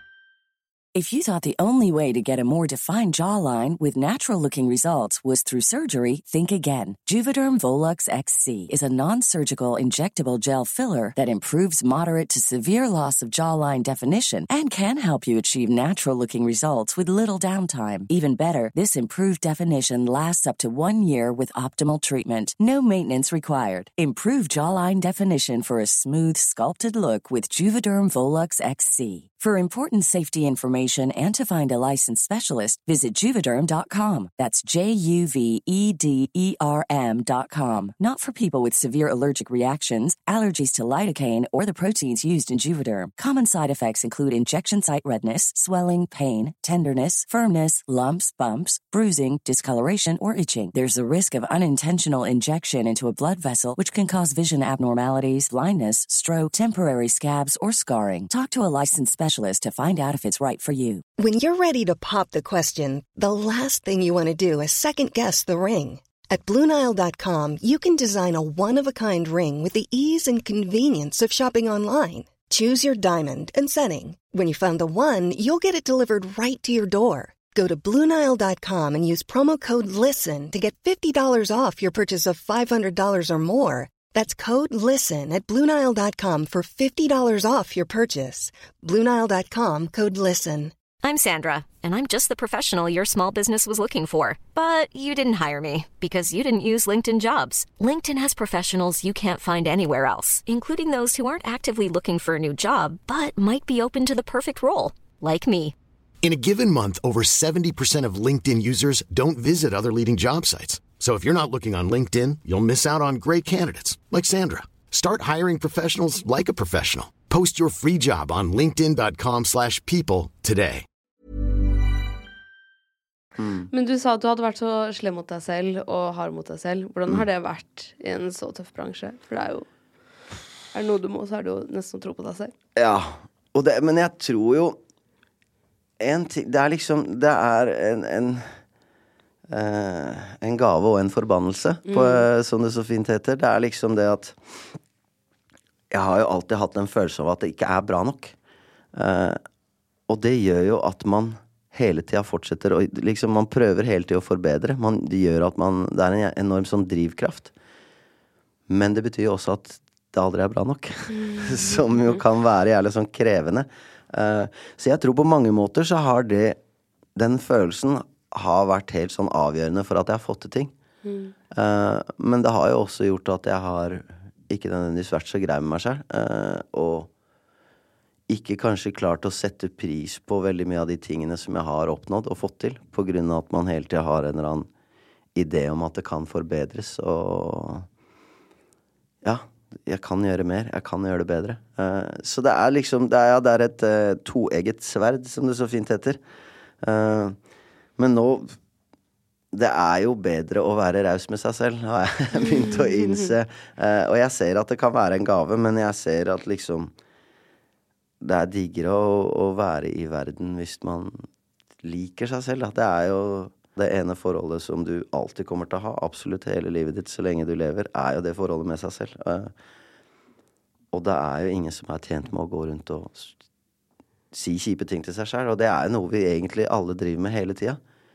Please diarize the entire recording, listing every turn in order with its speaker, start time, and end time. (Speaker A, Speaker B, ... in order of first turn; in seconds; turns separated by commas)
Speaker A: 0.9-61.0, Speaker B: 61.2-90.7, Speaker C: 91.0-105.7, Speaker D: 106.2-120.8, Speaker E: 123.4-123.7, Speaker F: 123.7-129.7, Speaker F: 130.7-132.5, Speaker E: 132.8-134.8, Speaker E: 136.0-138.6, Speaker E: 139.5-144.4, Speaker F: 141.9-142.2, Speaker E: 145.9-148.3, Speaker E: 148.9-149.4, Speaker E: 150.1-157.5, Speaker E: 158.7-166.6, Speaker E: 167.2-170.7, Speaker F: 171.0-171.3, Speaker E: 171.5-177.1, Speaker E: 178.3-184.7, Speaker E: 185.3-187.9, Speaker E: 189.2-196.2, Speaker E: 196.8-197.4, Speaker E: 198.0-198.6, Speaker E: 199.5-206.9, Speaker F: 202.5-203.3, Speaker E: 208.2-211.2, Speaker E: 211.8-219.5, Speaker E: 220.9-223.4, Speaker E: 224.3-227.8